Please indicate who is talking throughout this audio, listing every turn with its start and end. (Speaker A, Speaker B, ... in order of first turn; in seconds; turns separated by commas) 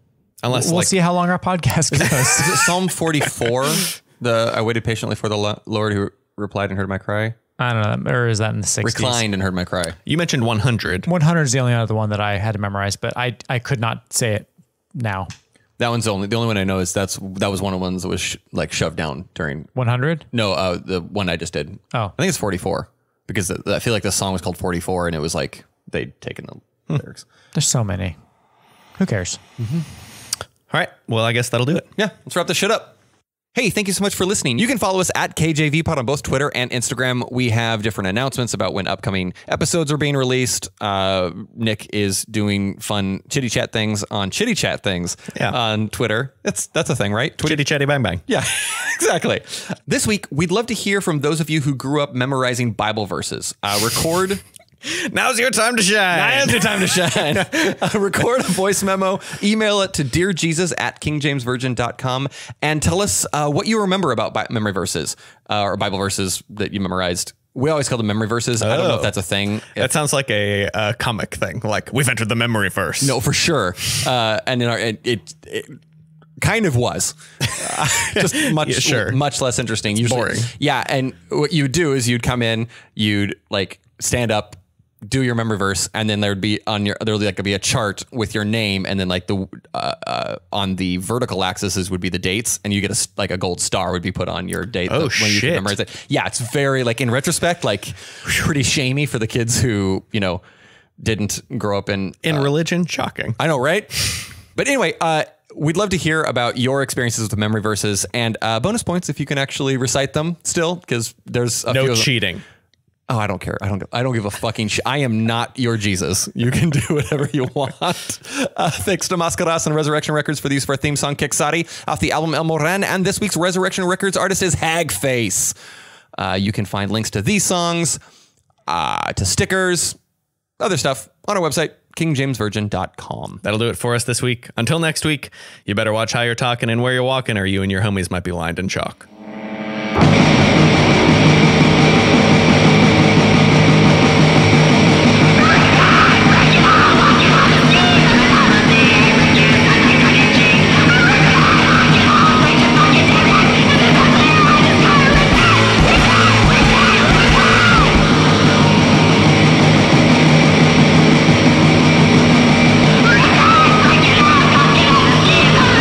Speaker A: 0.4-0.9, Speaker B: 0.5-2.7, Speaker C: 1.9-7.4, Speaker B: 7.6-9.2, Speaker C: 8.8-10.0, Speaker A: 10.1-11.1, Speaker B: 11.1-15.3, Speaker C: 15.8-19.7, Speaker B: 19.7-20.2, Speaker C: 20.3-27.2, Speaker B: 27.5-28.2, Speaker B: 29.0-29.4, Speaker C: 29.6-29.9, Speaker A: 30.7-31.9, Speaker C: 31.9-32.9, Speaker C: 33.5-47.6, Speaker A: 47.4-48.2, Speaker C: 48.3-54.4, Speaker A: 54.8-57.6, Speaker C: 56.1-69.9, Speaker A: 68.6-69.1, Speaker A: 69.8-73.2, Speaker C: 73.0-75.8, Speaker C: 76.4-100.4, Speaker A: 77.5-79.2, Speaker A: 79.9-80.5, Speaker A: 94.9-95.7, Speaker C: 101.0-102.5, Speaker A: 102.2-103.4, Speaker C: 103.4-112.1, Speaker A: 111.7-112.4, Speaker C: 113.1-125.5, Speaker C: 126.2-128.0, Speaker C: 128.7-130.0, Speaker C: 130.6-133.4, Speaker A: 133.4-139.1